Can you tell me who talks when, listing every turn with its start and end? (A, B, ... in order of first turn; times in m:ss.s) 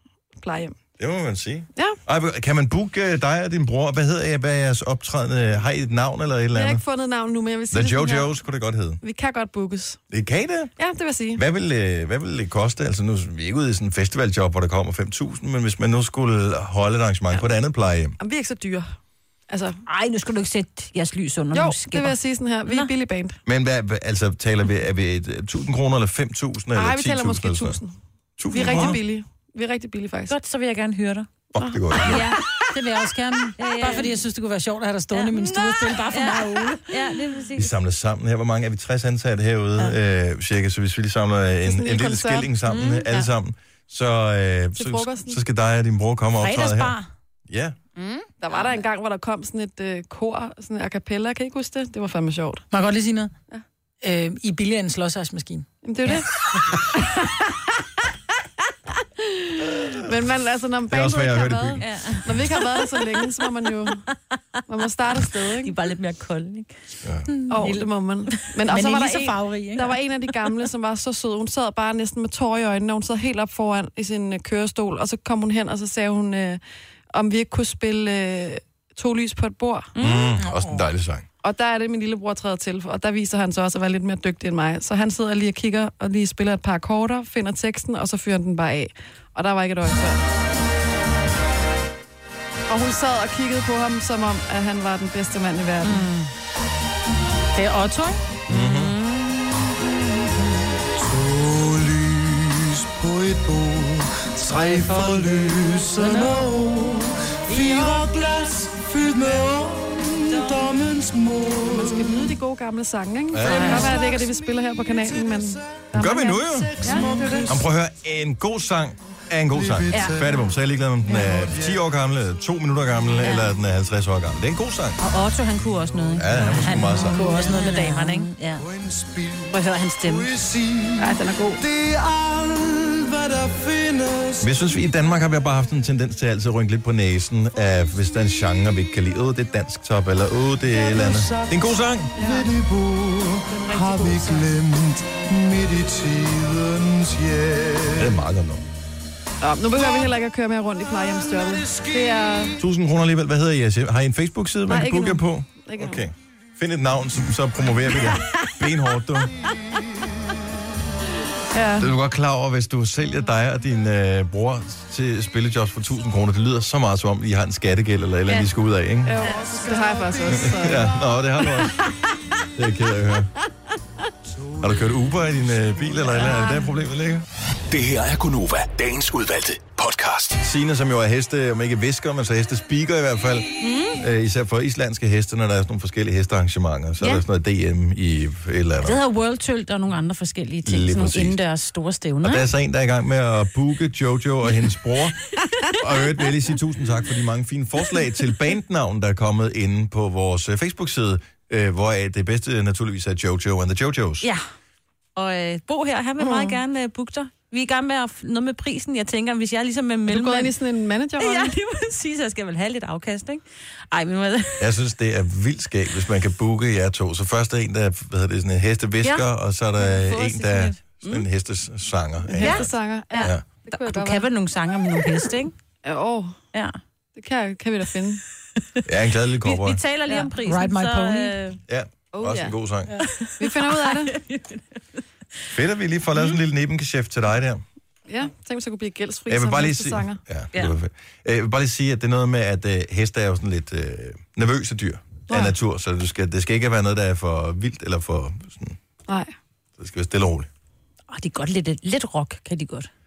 0:00.4-0:00.8 A
0:01.0-0:06.8 B
0:06.5-0:08.3 A
0:07.7-0:09.0 B
0:09.0-0:10.0 A
0:10.1-0:10.7 B
0:10.8-0:11.4 A
0:11.4-0:18.2 B
0:18.2-0:18.9 A
0:19.5-0:19.8 A
0:19.9-0:22.2 C
0:21.5-0:23.4 A
0:22.7-0:22.9 C
0:23.4-0:27.8 B
0:26.7-0:28.0 A
0:28.4-0:29.0 B
0:28.5-0:30.3 A
0:30.3-0:31.3 C
0:31.5-0:32.3 B
0:31.6-0:32.1 A
0:32.0-0:32.4 C
0:32.7-0:36.8 D
0:33.6-0:34.2 C
0:35.1-0:37.7 C
0:37.6-0:47.0 B
0:41.6-0:42.5 A
0:42.7-0:43.3 C
0:44.8-0:45.4 A
0:46.4-0:47.1 D
0:47.5-0:47.8 B
0:48.0-0:48.3 C
0:48.4-0:52.7 A
0:52.7-0:53.3 D
0:54.0-0:55.6 D
0:55.8-0:57.4 A
0:59.2-1:04.0 A
1:00.9-1:01.9 B
1:01.8-1:03.0 C
1:04.7-1:05.7 A
1:05.6-1:06.7 C
1:07.3-1:07.9 D
1:07.5-1:16.6 A
1:08.7-1:10.0 D
1:17.1-1:19.9 A
1:20.0-1:20.3 C
1:20.0-1:21.3 B
1:20.4-1:20.9 D
1:21.4-1:30.2 A
1:32.7-1:36.1 A
1:35.9-1:36.3 C
1:37.5-1:38.2 D
1:38.5-1:38.9 B
1:38.5-1:39.9 C
1:40.9-1:52.3 E
1:44.8-1:45.4 D
1:45.9-1:46.4 D
1:51.7-1:57.6 A
1:53.3-1:53.7 B
1:53.4-1:54.0 C
1:53.6-1:57.6 E
1:55.9-1:56.8 B
1:57.5-2:05.0 B
1:59.5-2:00.6 E
1:59.9-2:00.3 C
2:01.2-2:01.9 E
2:03.2-2:03.5 C
2:05.0-2:08.6 C
2:05.7-2:06.4 E
2:06.2-2:07.3 B
2:06.6-2:08.3 D
2:08.6-2:14.5 E
2:09.5-2:10.3 C
2:11.1-2:11.6 D
2:14.4-2:22.2 B
2:20.7-2:28.2 E
2:22.2-2:22.4 A
2:27.9-2:28.6 B
2:29.4-2:32.6 A
2:29.8-2:30.1 E
2:30.9-2:32.6 E
2:32.6-2:39.3 B
2:34.7-2:36.0 A
2:38.0-2:38.3 A
2:39.4-2:40.4 E
2:41.5-2:41.9 A
2:41.8-2:49.2 B
2:49.0-2:50.9 A
2:49.3-2:50.5 E
2:50.3-2:51.8 B
2:52.6-2:53.3 B
2:54.5-2:56.3 E
2:54.6-2:57.2 B
2:57.7-3:00.4 F
3:00.4-3:09.0 B
3:03.6-3:04.0 C
3:08.8-3:12.5 C
3:10.6-3:11.4 B
3:12.2-3:15.2 B
3:15.7-3:24.3 B
3:25.2-3:30.5 C
3:26.2-3:26.6 A
3:30.1-3:31.5 A
3:31.2-3:34.7 C
3:34.6-3:43.4 B
3:39.8-3:40.8 C
3:42.2-3:44.3 A
3:42.4-3:45.5 C
3:45.8-3:46.4 A
3:47.2-3:48.2 A
3:48.8-3:49.8 B
3:49.4-3:51.6 C
3:50.4-3:51.4 D
3:51.7-3:52.9 B
3:52.1-3:52.6 A
3:53.0-3:54.8 C
3:53.4-3:54.1 A
3:55.5-3:57.6 B
3:58.1-4:00.2 A
3:59.3-4:08.8 B
4:09.1-4:09.3 A
4:09.8-4:10.5 B
4:11.1-4:12.9 C